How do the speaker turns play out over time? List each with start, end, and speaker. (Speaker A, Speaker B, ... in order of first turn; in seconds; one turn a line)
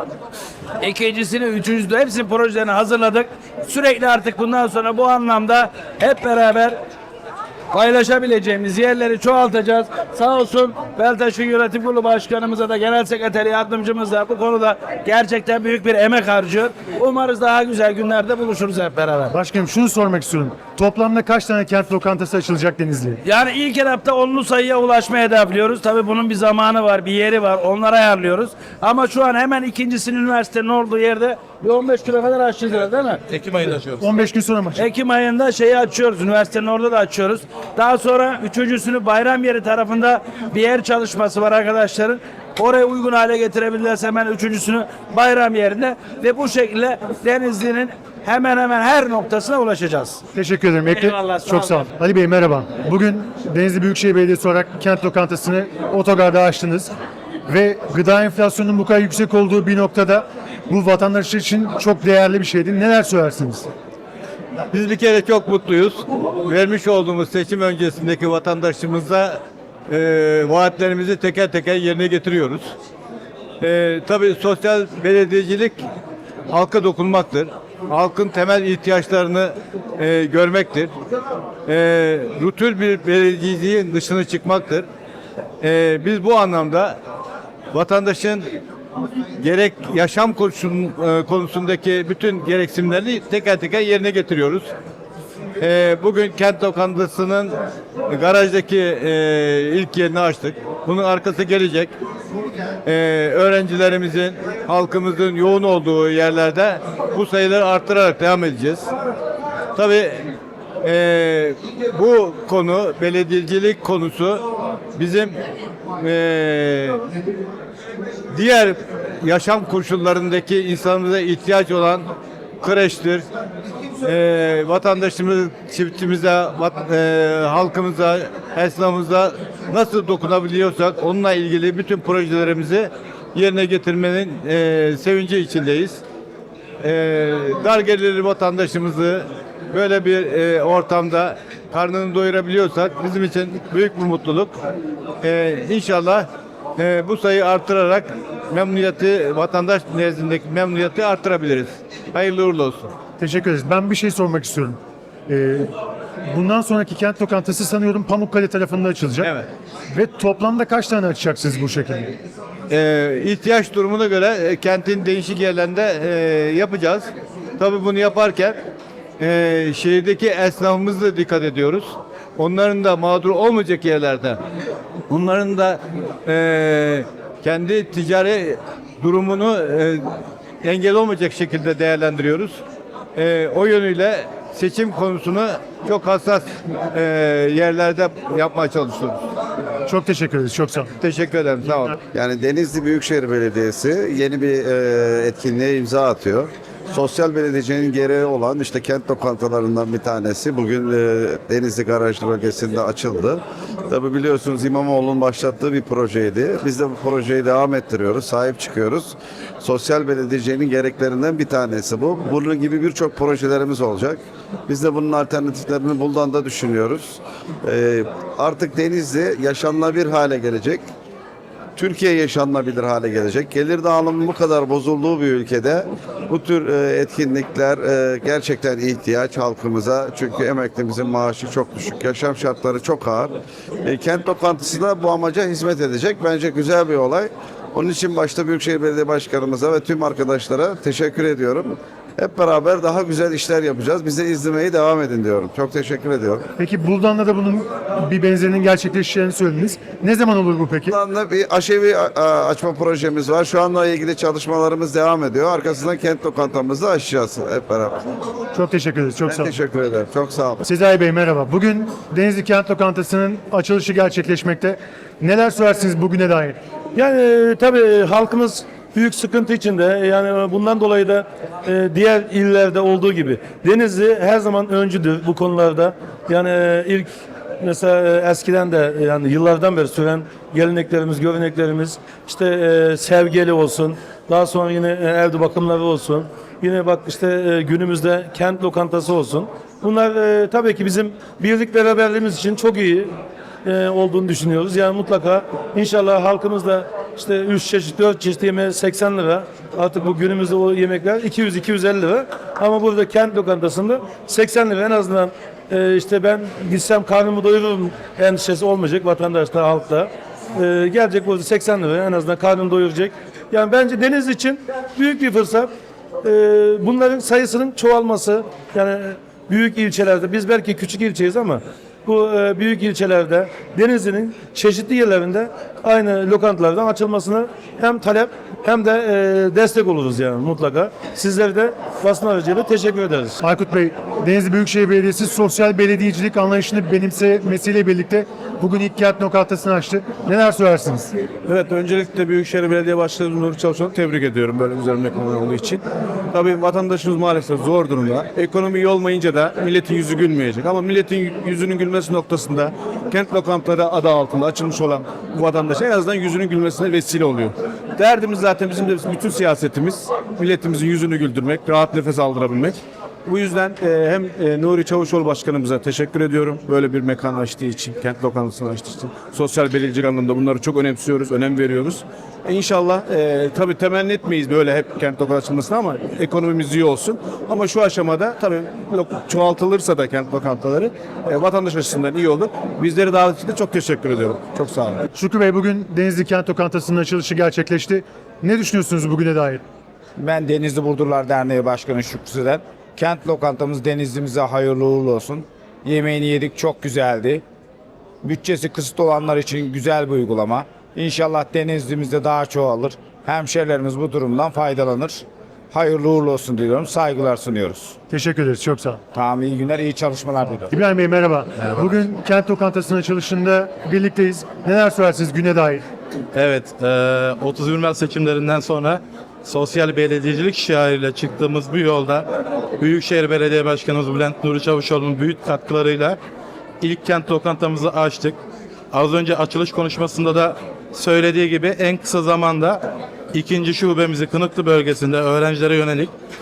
Speaker A: 0.8-6.8
Speaker A: 7.7-19.3
Speaker B: 19.3-23.2
Speaker A: 23.2-33.2
Speaker C: 33.3-34.1
Speaker B: 34.0-34.8
Speaker A: 34.8-50.2
Speaker B: 50.3-56.9
Speaker A: 50.9-51.8
Speaker B: 57.5-63.7
Speaker D: 64.7-72.7
Speaker D: 73.6-75.8
Speaker D: 76.5-80.9
Speaker D: 81.7-84.8
Speaker D: 85.6-87.0
Speaker D: 87.7-88.5
Speaker D: 89.4-94.7
Speaker D: 95.6-97.6
Speaker D: 98.1-101.9
Speaker D: 102.8-108.9
Speaker D: 109.7-110.3
Speaker D: 110.8-114.4
Speaker D: 115.0-115.3
Speaker D: 116.0-117.0
Speaker D: 118.3-122.1
Speaker D: 122.6-123.3
Speaker D: 124.0-136.0
Speaker D: 136.8-144.5
Speaker D: 145.2-152.9
Speaker B: 153.2-155.7
Speaker B: 156.3-159.3
Speaker B: 159.9-162.1
Speaker D: 162.7-168.6
Speaker D: 169.2-174.4
Speaker D: 175.1-180.0
Speaker D: 180.6-182.6
Speaker D: 183.2-189.2
Speaker B: 189.8-190.9
Speaker D: 191.0-192.0
Speaker E: 192.1-220.8
Speaker E: 221.8-246.4
Speaker B: 246.6-250.9
Speaker E: 250.9-258.1
Speaker B: 258.5-259.5
Speaker E: 259.2-260.6
Speaker B: 260.6-266.6
Speaker F: 266.9-277.1
Speaker F: 277.6-293.1
Speaker F: 293.6-315.7
Speaker F: 316.2-333.4
Speaker B: 333.4-341.1
Speaker G: 341.7-342.1
Speaker G: 342.7-343.9
Speaker G: 344.4-345.2
Speaker G: 346.5-352.7
Speaker G: 353.2-362.7
Speaker G: 363.3-368.6
Speaker G: 369.1-369.9
Speaker G: 371.1-372.0
Speaker G: 372.6-385.0
Speaker B: 385.1-389.6
Speaker H: 390.2-397.4
Speaker H: 398.2-407.9
Speaker B: 408.1-409.0
Speaker H: 409.1-410.7
Speaker B: 410.7-415.8
Speaker C: 416.3-422.3
Speaker C: 422.8-426.2
Speaker C: 426.8-428.4
Speaker C: 428.9-436.1